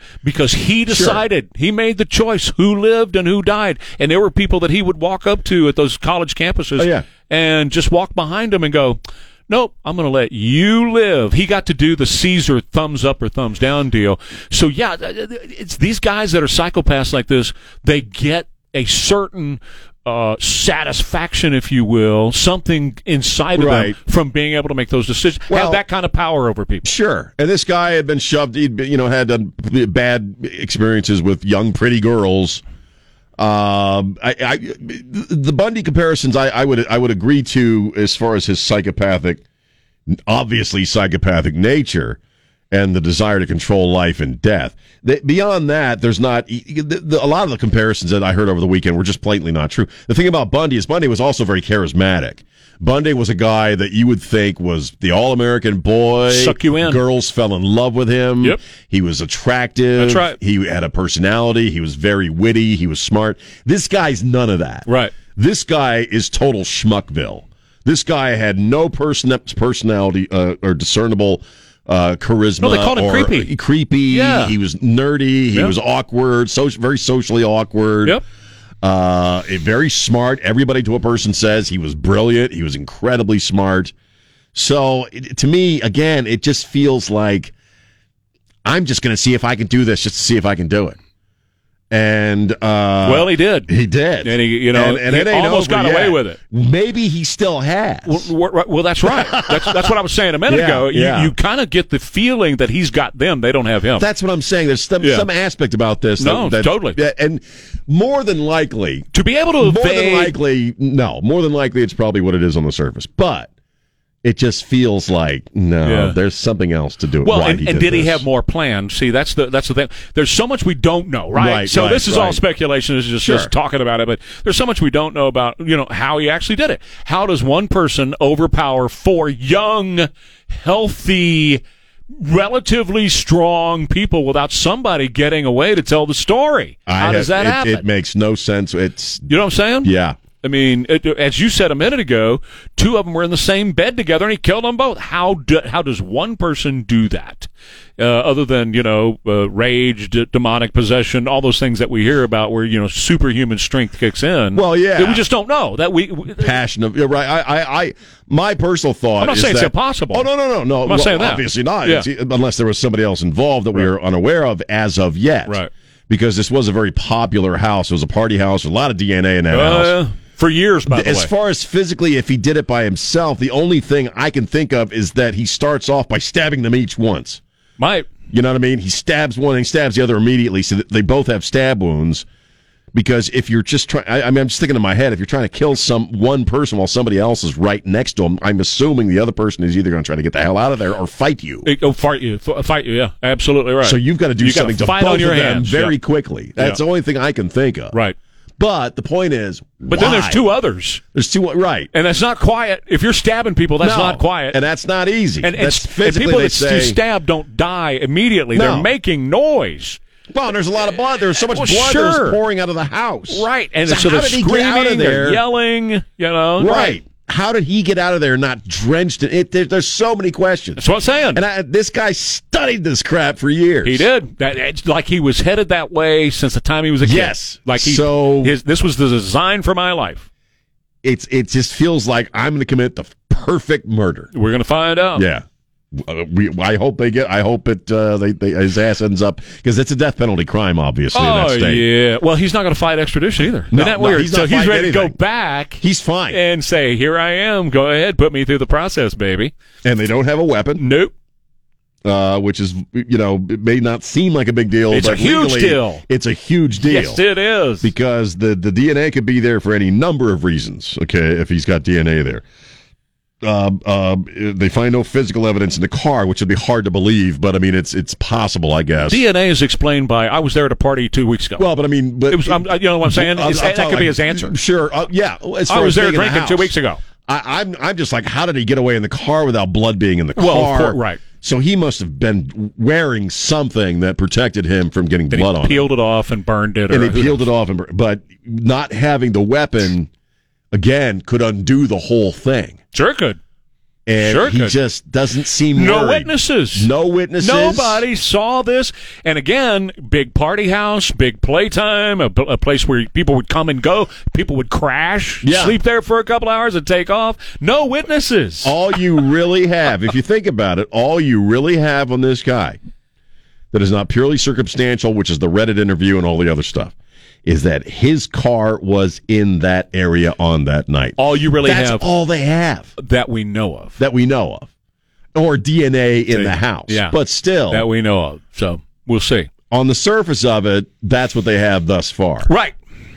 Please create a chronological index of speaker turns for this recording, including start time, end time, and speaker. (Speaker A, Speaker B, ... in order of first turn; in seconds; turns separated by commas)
Speaker A: 0.2-26.9, Speaker B: 0.9-1.2, Speaker B: 6.8-7.0, Speaker B: 23.6-24.0, Speaker B: 25.5-25.8, Speaker B: 26.8-32.6, Speaker B: 33.4-39.4, Speaker B: 40.1-42.2, Speaker B: 42.7-78.2, Speaker A: 56.3-57.0, Speaker A: 60.0-60.4, Speaker A: 64.8-65.1, Speaker A: 72.6-73.5, Speaker A: 74.1-74.5, Speaker B: 78.8-83.9, Speaker B: 84.5-87.5, Speaker B: 88.6-91.0, Speaker B: 91.9-98.3, Speaker A: 93.0-93.7, Speaker A: 94.2-96.4, Speaker A: 98.0-104.1, Speaker B: 99.0-99.9, Speaker B: 100.5-101.3, Speaker B: 104.0-109.1, Speaker A: 105.0-105.3, Speaker A: 106.2-107.0, Speaker A: 109.1-110.3, Speaker B: 109.6-113.5, Speaker B: 114.2-118.2, Speaker A: 115.8-116.2, Speaker A: 117.2-131.6, Speaker B: 121.3-122.4, Speaker B: 123.2-123.5, Speaker A: 132.2-137.8, Speaker B: 136.9-139.3, Speaker A: 139.3-156.5, Speaker B: 139.8-140.2, Speaker B: 154.5-155.2, Speaker B: 156.3-170.0, Speaker A: 159.2-160.3, Speaker A: 160.8-162.1, Speaker A: 169.5-171.3, Speaker B: 170.9-177.4, Speaker A: 177.8-178.1, Speaker B: 178.3-182.2, Speaker B: 182.9-191.7, Speaker A: 191.6-195.9, Speaker B: 193.8-197.9, Speaker B: 198.6-200.5, Speaker A: 199.9-201.0, Speaker B: 201.1-201.9, Speaker A: 201.9-204.6, Speaker B: 203.8-207.0, Speaker A: 205.4-210.0, Speaker B: 208.5-208.9, Speaker B: 210.3-215.4, Speaker A: 211.5-212.4, Speaker A: 213.3-217.0, Speaker B: 216.6-224.1, Speaker A: 220.8-221.4, Speaker A: 223.8-230.2, Speaker B: 227.0-228.6, Speaker B: 231.0-234.3, Speaker A: 234.3-235.3, Speaker B: 235.1-241.8, Speaker A: 241.1-249.5, Speaker B: 243.7-245.2, Speaker B: 245.8-246.4, Speaker B: 249.8-250.8, Speaker A: 250.8-251.1, Speaker B: 252.0-257.2, Speaker A: 254.9-256.0, Speaker A: 256.8-257.9, Speaker B: 257.8-262.4, Speaker B: 263.4-269.2, Speaker A: 269.0-271.7, Speaker B: 271.6-276.7, Speaker A: 272.3-274.6, Speaker A: 275.7-277.0, Speaker B: 277.2-285.9, Speaker A: 280.4-281.2, Speaker A: 285.3-287.5, Speaker B: 286.9-290.1, Speaker B: 290.7-292.8, Speaker A: 292.9-293.4, Speaker B: 294.1-298.0, Speaker A: 294.2-294.7, Speaker A: 295.7-308.8, Speaker B: 305.4-305.8, Speaker B: 308.6-312.8, Speaker B: 313.7-316.9, Speaker B: 317.4-322.9, Speaker A: 321.2-322.1, Speaker A: 323.0-324.0, Speaker B: 324.0-324.7, Speaker B: 325.3-327.9, Speaker A: 326.3-327.2, Speaker A: 327.7-329.5, Speaker B: 329.7-332.5, Speaker A: 332.5-332.8